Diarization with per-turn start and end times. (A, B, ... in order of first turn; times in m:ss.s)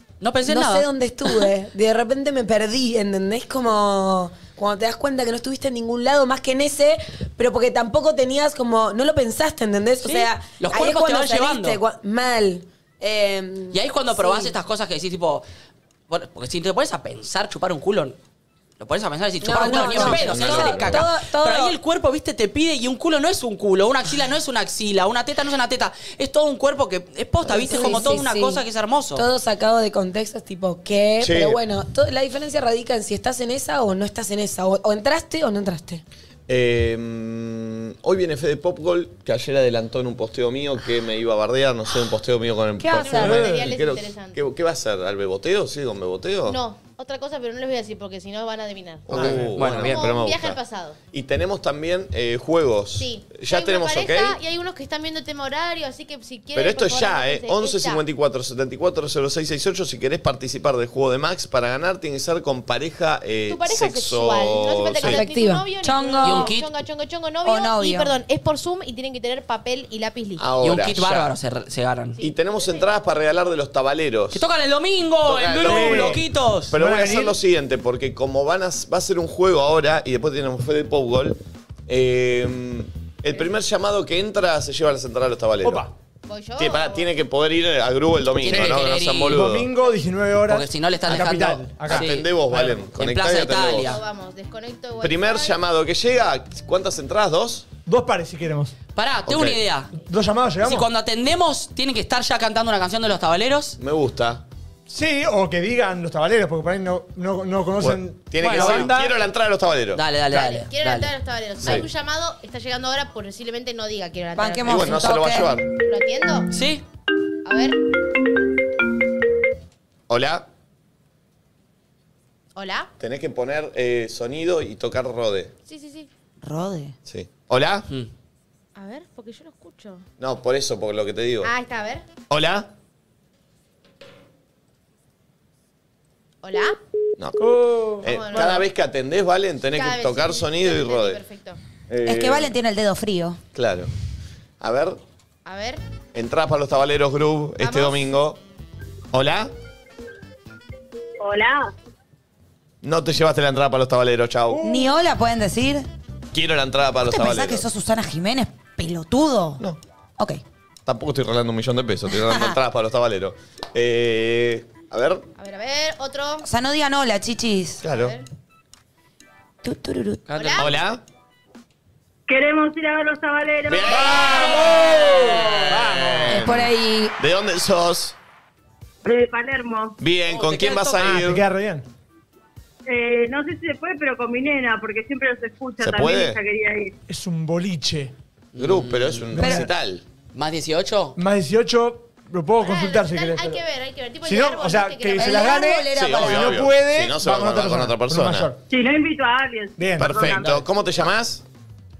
0:00.2-0:01.3 A
0:00.4-0:14.5 B
0:10.0-0:11.8 A
0:13.7-0:15.4 A
0:16.1-0:18.2 A
0:18.8-0:29.2 A
0:19.4-0:21.7 B
0:19.6-0:21.0 C
0:27.4-0:28.6 B
0:29.2-0:36.0 B
0:31.2-0:31.6 C
0:36.5-0:46.6 C
0:42.8-0:43.4 D
0:42.9-0:44.4 E
0:43.2-0:43.6 F
0:46.5-0:51.0 E
0:49.1-0:50.6 C
0:49.1-0:49.6 F
0:49.1-0:50.1 A
0:51.1-0:54.4 C
0:53.0-0:58.0 E
0:56.5-1:05.2 C
1:03.5-1:10.4 E
1:05.0-1:05.6 B
1:05.8-1:06.5 D
1:06.2-1:06.6 A
1:07.4-1:08.1 D
1:10.4-1:11.3 C
1:10.6-1:12.2 A
1:12.2-1:13.2 E
1:12.2-1:14.4 C
1:14.3-1:16.7 A
1:15.2-1:25.9 C
1:15.6-1:17.4 F
1:25.6-1:25.9 F
1:26.3-1:27.1 E
1:26.6-1:29.7 C
1:28.4-1:29.4 A
1:28.5-1:32.8 F
1:30.4-1:32.3 A
1:31.8-1:34.0 C
1:32.9-1:34.0 A
1:33.5-1:35.6 E
1:35.0-1:37.7 C
1:37.8-1:38.7 F
1:38.9-1:40.0 A
1:39.3-1:39.6 C
1:40.0-1:40.9 F
1:40.6-1:43.8 A
1:43.8-1:44.4 C
1:44.9-1:49.2 F
1:47.8-1:50.0 C
1:48.4-1:48.9 A
1:49.9-1:51.8 A
1:50.3-1:55.0 E
1:51.6-1:51.9 C
1:54.3-1:55.5 D
1:54.6-1:55.7 C
1:55.8-1:56.5 E
1:56.5-1:56.8 A
1:57.4-1:57.8 E
2:00.1-2:00.5 C
2:02.6-2:02.9 E
2:03.0-2:05.5 C
2:05.7-2:06.1 E
2:06.4-2:06.9 D
2:07.0-2:07.9 C
2:08.8-2:10.0 E
2:10.2-2:11.5 C
2:11.4-2:12.0 E
2:12.3-2:12.7 C
2:16.4-2:16.8 E
2:17.2-2:21.2 C
2:17.4-2:18.1 F
2:18.0-2:18.7 E
2:19.7-2:21.6 E
2:21.9-2:22.5 C
2:22.0-2:23.4 D
2:23.5-2:23.9 C
2:24.6-2:25.0 C
2:25.4-2:25.8 E
2:26.1-2:28.4 C
2:27.6-2:28.0 E
2:29.1-2:29.5 C
2:31.2-2:31.7 G
2:32.8-2:34.6 C
2:34.5-2:34.9 F
2:34.6-2:35.8 D
2:36.3-2:37.7 C
2:37.1-2:39.6 D
2:40.8-2:45.2 C
2:42.2-2:42.5 D
2:45.4-2:46.4 E
2:46.4-2:47.8 D
2:47.8-2:48.2 C
2:47.9-2:48.2 E
2:49.6-2:50.3 D
2:50.3-2:50.7 A
2:50.3-2:50.7 E
2:50.6-2:51.0 C
2:52.3-2:54.5 G
2:53.6-2:58.2 C
2:53.8-2:56.5 F
2:56.3-2:57.1 B
2:59.0-2:59.9 G
3:00.0-3:01.4 C
3:00.3-3:01.2 A
3:01.0-3:01.8 F
3:02.9-3:06.9 G
3:05.8-3:06.4 C
3:07.1-3:08.1 F
3:08.5-3:09.2 A
3:08.6-3:10.0 C
3:09.3-3:09.7 F
3:10.3-3:11.2 A
3:11.2-3:13.6 F
3:12.6-3:15.7 E
3:14.2-3:18.6 F
3:15.2-3:16.7 D
3:15.9-3:18.5 C
3:18.7-3:20.7 G
3:19.8-3:20.5 F
3:20.0-3:21.4 C